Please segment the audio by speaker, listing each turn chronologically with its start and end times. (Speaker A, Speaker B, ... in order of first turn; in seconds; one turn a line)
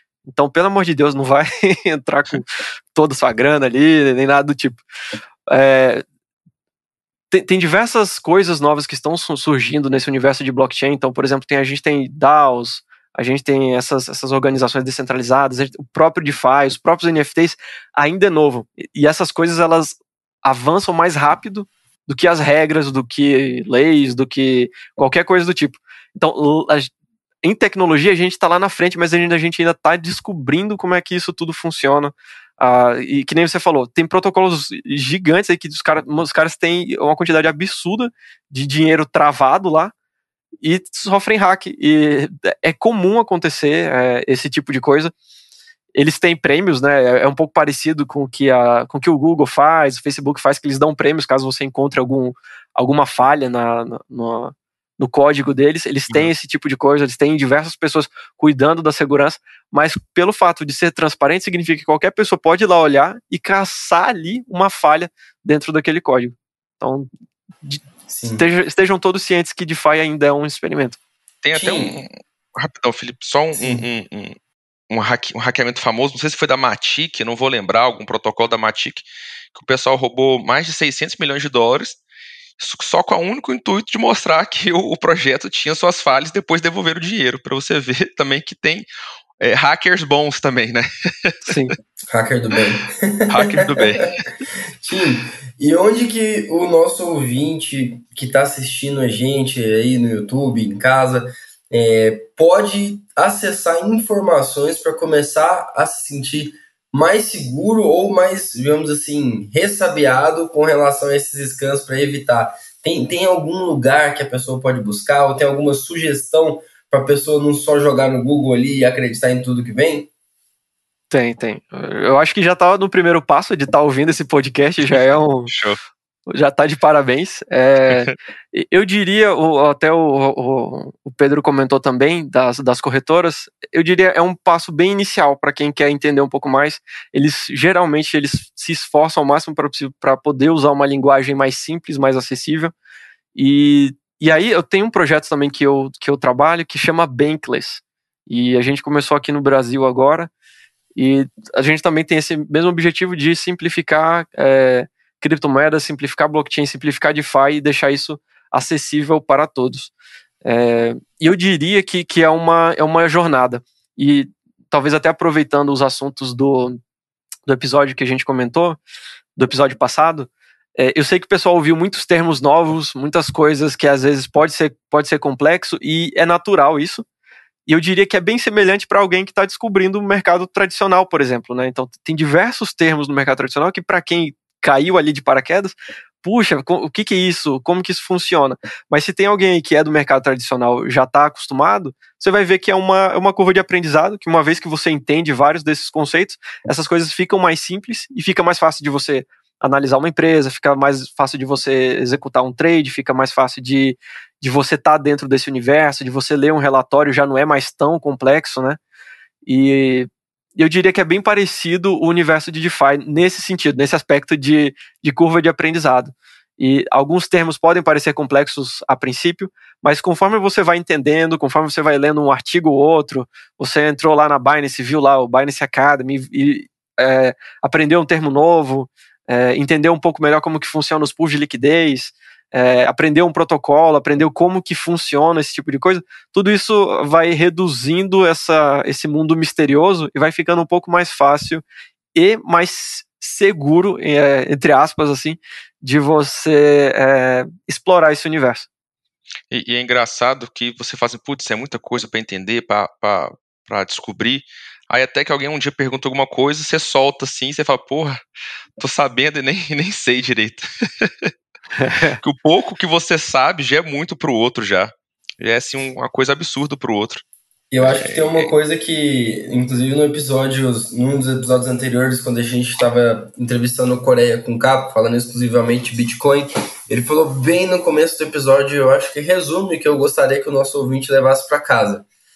Speaker A: 0.2-4.8
Speaker A: 5.5-6.0
Speaker A: 7.3-26.9
Speaker A: 27.4-39.9
Speaker A: 40.6-45.1
Speaker A: 46.0-67.1
Speaker B: 68.1-68.4
Speaker A: 68.4-71.0
Speaker C: 71.4-74.4
Speaker B: 71.5-71.9
Speaker B: 73.6-73.8
Speaker C: 74.9-82.0
Speaker C: 82.6-88.8
Speaker C: 89.4-91.5
Speaker A: 91.5-91.7
Speaker B: 92.1-93.9
Speaker C: 93.3-94.2
Speaker B: 94.8-120.1
Speaker A: 121.1-125.5
Speaker C: 125.5-125.8
Speaker A: 126.3-142.7
Speaker A: 143.3-150.3
Speaker A: 150.9-159.9
Speaker A: 160.4-166.8
Speaker A: 167.4-168.8
Speaker A: 169.3-177.0
Speaker A: 177.7-208.8
Speaker A: 209.4-241.6
Speaker A: 242.1-248.7
Speaker C: 249.5-258.2
Speaker C: 258.8-261.3
Speaker A: 261.8-262.2
Speaker C: 262.2-267.2
Speaker B: 267.7-282.1
Speaker C: 267.8-268.5